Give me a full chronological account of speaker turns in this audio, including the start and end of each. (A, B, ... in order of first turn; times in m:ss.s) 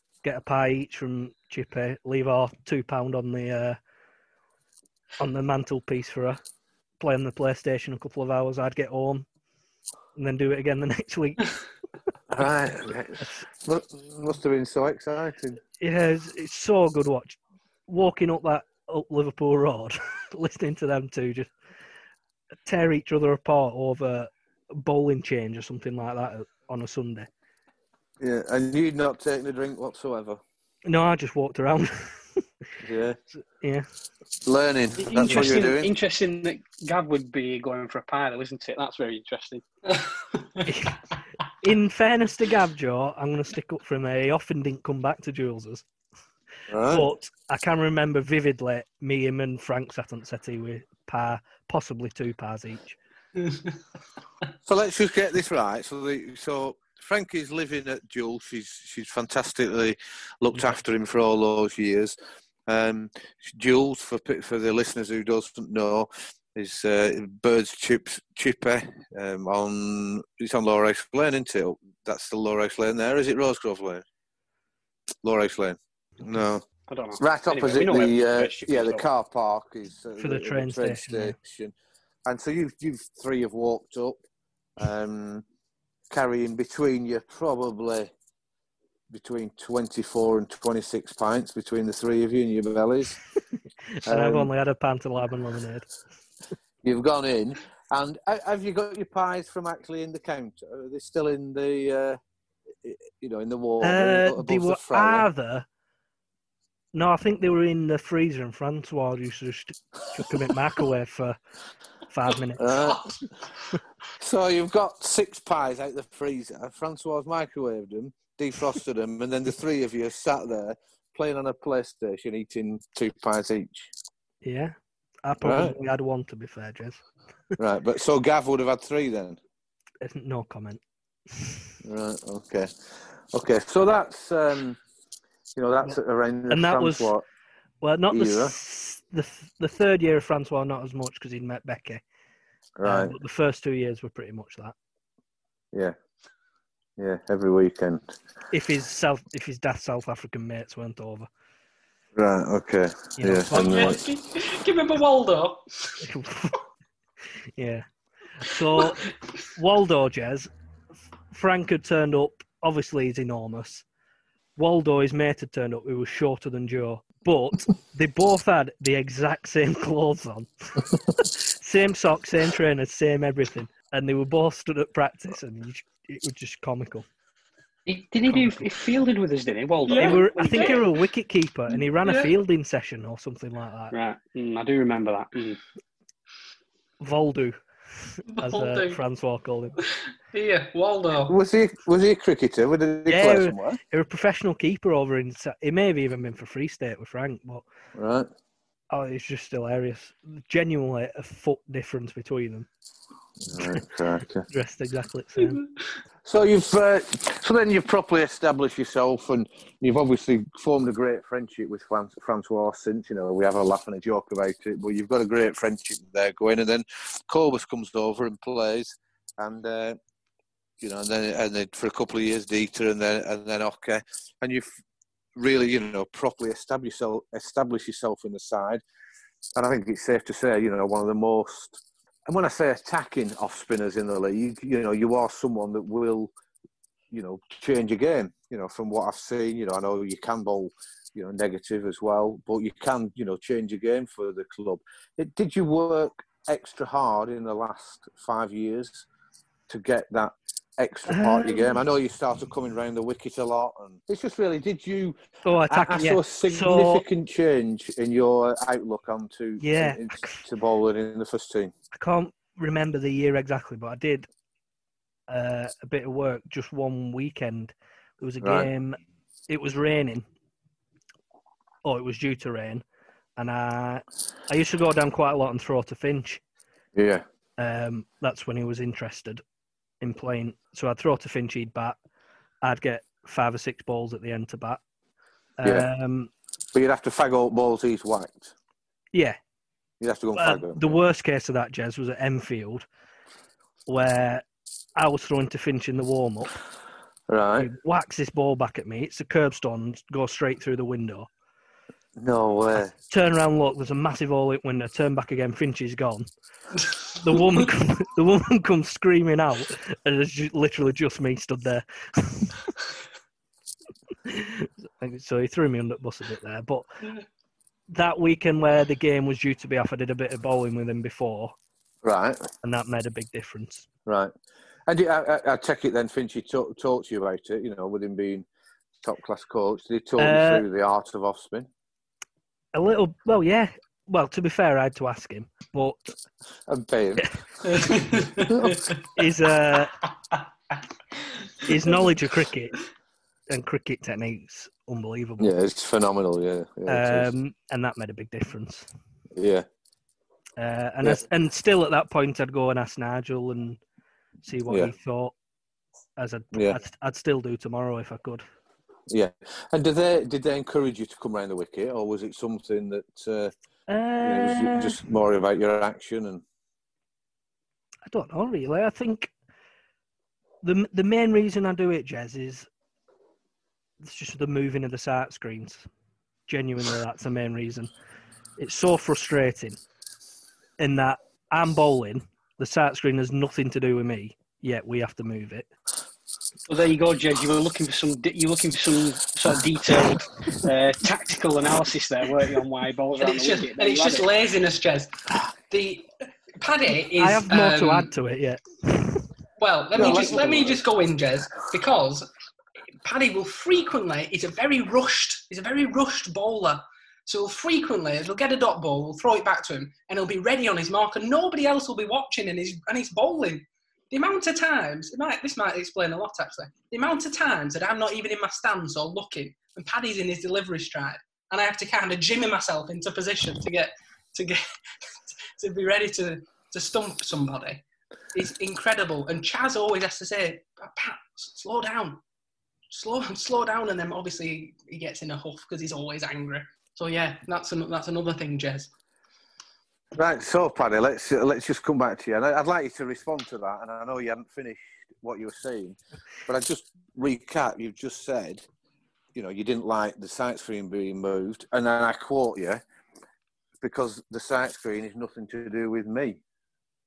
0:00.2-0:03.8 A
0:05.2-0:06.4 A
0:07.0-0:09.3 A
0:10.2-0:11.5 A
0:12.3-0:15.6 B
0:15.8-0:21.5 A
0:22.7-0:27.3 A
0:28.2-0:30.4 B
0:30.9-0:32.4 A
0:32.8-0:33.2 B
0:33.6-0:33.9 A
0:34.4-0:35.9 B
0:35.0-0:39.6 C
0:40.6-0:41.0 A
0:41.6-0:45.8 A
0:46.7-0:47.1 B
0:46.9-0:53.0 A
0:54.7-1:02.2 B
1:02.7-1:14.0 B
1:15.2-1:16.6 B
1:16.9-1:19.0 C
1:17.2-1:21.7 B
1:20.2-1:21.4 A
1:22.3-1:24.2 B
1:24.8-1:25.4 B
1:26.1-1:28.1 B
1:29.1-1:33.2 B
1:34.1-1:34.5 B
1:34.1-1:35.9 A
1:36.8-1:42.2 B
1:42.8-1:45.3 B
1:43.8-1:45.7 A
1:46.9-1:51.4 A
1:52.1-1:52.7 A
1:52.6-1:53.2 B
1:52.8-1:53.2 D
1:54.2-2:03.9 B
2:04.4-2:04.7 A
2:05.2-2:07.0 A
2:05.4-2:05.8 B
2:07.6-2:09.4 B
2:10.0-2:10.8 A
2:11.8-2:14.8 B
2:15.6-2:17.2 B
2:16.5-2:17.1 A
2:17.8-2:22.0 A
2:18.1-2:18.6 B
2:22.8-2:23.2 B
2:22.8-2:24.8 A
2:27.0-2:28.1 B
2:28.5-2:31.3 A
2:32.2-2:34.0 B
2:33.2-2:34.0 A
2:33.5-2:36.0 D
2:36.0-2:36.6 A
2:37.6-2:37.9 A
2:38.4-2:40.5 A
2:41.3-2:43.8 A
2:44.6-2:57.1 A
2:57.9-3:00.8 C
2:58.3-2:58.7 A
2:59.9-3:00.8 D
2:59.9-3:03.9 A
3:02.0-3:02.3 D
3:03.9-3:05.6 C
3:07.0-3:07.6 A
3:08.2-3:09.8 A
3:08.3-3:09.0 D
3:10.3-3:11.4 D
3:11.3-3:13.8 B
3:13.1-3:17.6 A
3:18.0-3:18.3 B
3:18.9-3:22.7 A
3:23.4-3:24.5 B
3:24.5-3:25.6 A
3:26.2-3:40.0 B
3:40.8-3:44.8 B
3:45.4-3:48.8 B
3:49.6-3:56.3 B
3:57.1-4:09.1 B
4:09.7-4:21.7 B
4:11.1-4:11.8 A
4:15.4-4:17.0 A
4:19.6-4:20.4 A
4:21.9-4:24.3 A
4:25.3-4:29.0 A
4:28.4-4:28.7 B
4:29.5-4:30.3 A
4:31.8-4:32.8 A
4:33.4-4:36.4 A
4:37.0-4:37.2 B
4:37.6-4:39.4 A
4:40.0-4:42.0 A
4:42.6-4:44.8 A
4:45.6-4:46.3 A
4:46.7-4:48.6 B
4:49.1-4:49.4 A
4:50.0-4:51.0 B
4:50.4-4:52.9 A
4:53.9-4:54.4 A
4:55.0-4:56.5 A
4:57.3-4:57.7 B
4:57.6-5:01.3 A
5:02.2-5:02.9 B
5:03.1-5:06.3 A
5:07.1-5:12.6 A
5:14.2-5:16.8 A
5:17.9-5:21.6 A
5:22.0-5:22.4 B
5:22.6-5:23.9 A
5:24.1-5:24.3 B
5:24.9-5:28.5 B
5:29.0-5:31.7 B
5:30.2-5:30.6 A
5:32.7-5:36.1 A
5:36.7-5:38.8 B
5:37.7-5:39.0 D
5:39.2-5:39.9 A
5:41.7-5:42.8 A
5:43.5-5:45.5 A
5:45.4-5:47.3 B
5:46.9-5:48.9 A
5:49.4-5:49.7 B
5:50.6-5:53.8 A
5:54.4-5:55.4 A
5:56.2-5:58.4 A
5:56.5-5:56.8 B
5:59.1-6:03.5 B
6:03.9-6:05.0 A
6:04.2-6:06.4 B
6:08.1-6:09.3 A
6:10.6-6:12.7 A
6:14.0-6:15.9 A
6:16.5-6:17.9 A
6:18.6-6:19.8 A
6:20.8-6:25.7 A
6:26.7-6:34.3 C
6:33.2-6:35.1 D
6:35.7-6:36.1 D
6:36.6-6:38.1 D
6:37.2-6:39.2 A
6:39.6-6:42.3 D
6:40.0-6:40.8 B
6:43.0-7:04.6 D
7:05.6-7:12.2 D
7:12.9-7:18.9 D
7:20.2-7:28.7 B
7:29.4-7:32.8 B
7:33.8-7:36.4 B